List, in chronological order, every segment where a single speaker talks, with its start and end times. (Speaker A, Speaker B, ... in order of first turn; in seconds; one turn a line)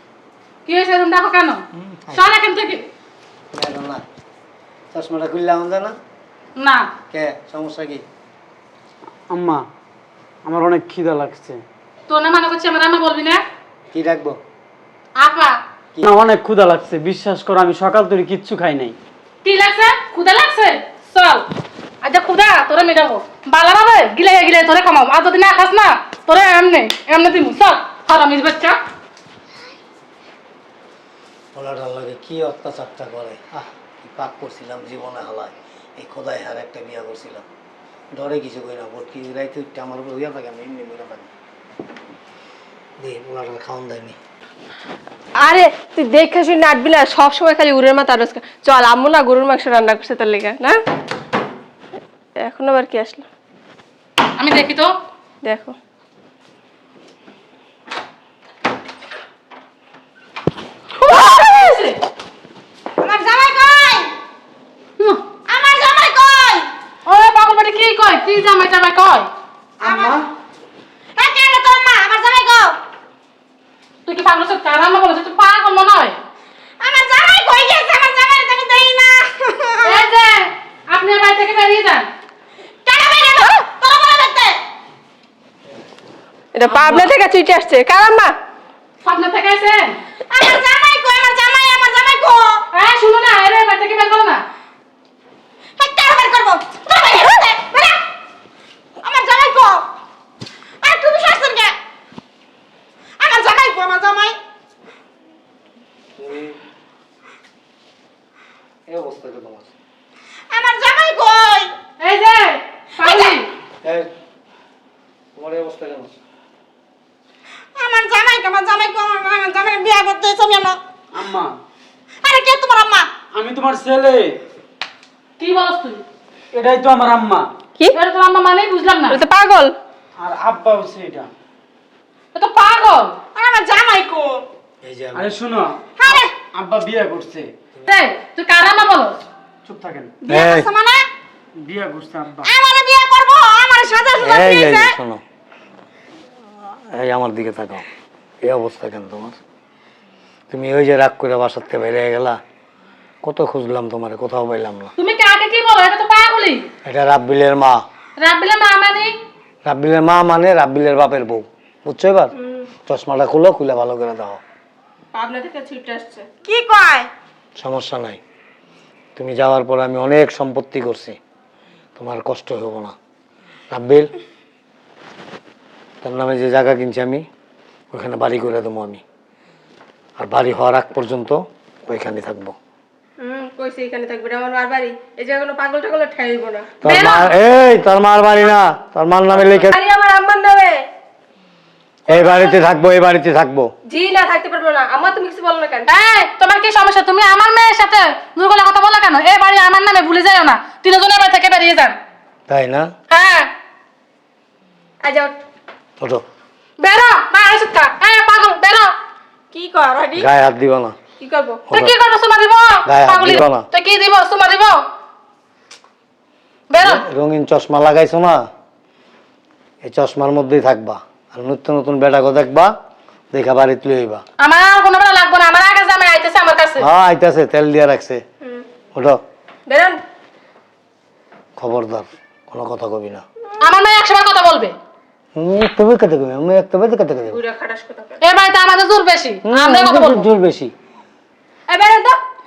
Speaker A: 0.7-2.9
Speaker B: 1.7-2.3
Speaker B: 3.5-4.0
Speaker B: 4.9-5.9
Speaker A: 6.6-6.9
Speaker B: 7.1-8.1
Speaker C: 9.3-9.7
Speaker C: 10.4-11.6
Speaker A: 12.1-13.4
Speaker B: 13.9-14.4
Speaker A: 15.2-15.6
Speaker C: 16.0-19.0
Speaker A: 19.4-21.5
Speaker A: 22.0-28.8
Speaker B: 31.5-37.5
Speaker B: 38.1-41.3
Speaker B: 43.0-44.2
Speaker D: 45.4-50.8
Speaker D: 52.4-53.3
Speaker A: 54.4-54.9
Speaker D: 55.4-55.8
Speaker A: 61.0-62.0
Speaker E: 63.0-64.1
Speaker A: 65.0-65.2
Speaker E: 65.5-66.7
Speaker A: 67.1-69.3
Speaker C: 69.8-70.3
Speaker E: 69.8-70.2
Speaker E: 71.2-72.8
Speaker A: 74.1-76.2
Speaker E: 76.8-80.0
Speaker A: 79.8-82.1
Speaker E: 82.8-84.6
Speaker D: 86.5-88.3
Speaker A: 89.0-90.0
Speaker D: 90.3-91.3
Speaker E: 90.4-92.5
Speaker A: 92.7-94.4
Speaker E: 95.8-98.0
Speaker D: 97.3-97.7
Speaker E: 99.0-99.8
Speaker E: 100.8-101.7
Speaker D: 100.8-101.4
Speaker E: 103.2-104.4
Speaker B: 106.2-106.6
Speaker B: 108.9-109.7
Speaker E: 110.5-111.8
Speaker A: 112.0-113.5
Speaker E: 113.0-113.4
Speaker B: 113.8-114.1
Speaker B: 115.4-116.1
Speaker E: 117.8-120.8
Speaker C: 121.1-121.5
Speaker E: 122.2-123.1
Speaker C: 123.3-124.4
Speaker A: 125.4-126.0
Speaker C: 126.5-127.5
Speaker A: 127.9-129.2
Speaker D: 129.1-129.8
Speaker C: 130.2-131.3
Speaker A: 132.3-133.2
Speaker E: 133.3-134.4
Speaker B: 134.8-135.3
Speaker C: 135.1-137.5
Speaker A: 137.9-139.2
Speaker C: 139.7-140.2
Speaker E: 140.2-141.1
Speaker B: 140.3-140.7
Speaker D: 140.3-140.7
Speaker C: 141.6-142.5
Speaker E: 142.4-144.9
Speaker B: 144.2-145.2
Speaker B: 146.6-147.9
Speaker B: 148.4-149.4
Speaker B: 150.5-152.4
Speaker B: 153.2-154.9
Speaker A: 155.0-156.7
Speaker B: 156.8-157.8
Speaker A: 158.2-159.1
Speaker B: 159.7-162.3
Speaker D: 162.4-162.7
Speaker B: 162.9-164.4
Speaker D: 165.1-167.1
Speaker E: 166.5-167.1
Speaker B: 167.6-168.2
Speaker B: 169.2-171.2
Speaker B: 172.0-173.0
Speaker B: 173.7-174.1
Speaker B: 176.0-177.2
Speaker B: 177.9-179.0
Speaker B: 180.2-182.6
Speaker D: 183.2-186.8
Speaker B: 186.8-189.8
Speaker A: 186.8-187.3
Speaker D: 189.7-190.8
Speaker B: 192.1-193.7
Speaker D: 192.1-192.6
Speaker D: 193.9-195.9
Speaker A: 195.9-202.0
Speaker B: 202.5-202.9
Speaker A: 203.1-203.5
Speaker D: 205.0-205.4
Speaker A: 206.8-208.9
Speaker D: 209.5-210.3
Speaker B: 210.2-211.0
Speaker D: 211.2-211.6
Speaker B: 211.7-211.9
Speaker A: 211.7-214.8
Speaker B: 212.9-213.7
Speaker A: 216.7-217.0
Speaker B: 216.7-218.5
Speaker B: 219.8-222.7
Speaker B: 223.3-224.2
Speaker A: 224.4-226.9
Speaker B: 226.8-228.2
Speaker D: 229.7-230.0
Speaker B: 231.6-233.2
Speaker A: 233.6-234.7
Speaker B: 235.4-237.4
Speaker D: 237.3-238.2
Speaker A: 238.2-240.3
Speaker B: 239.4-240.7
Speaker D: 241.7-242.2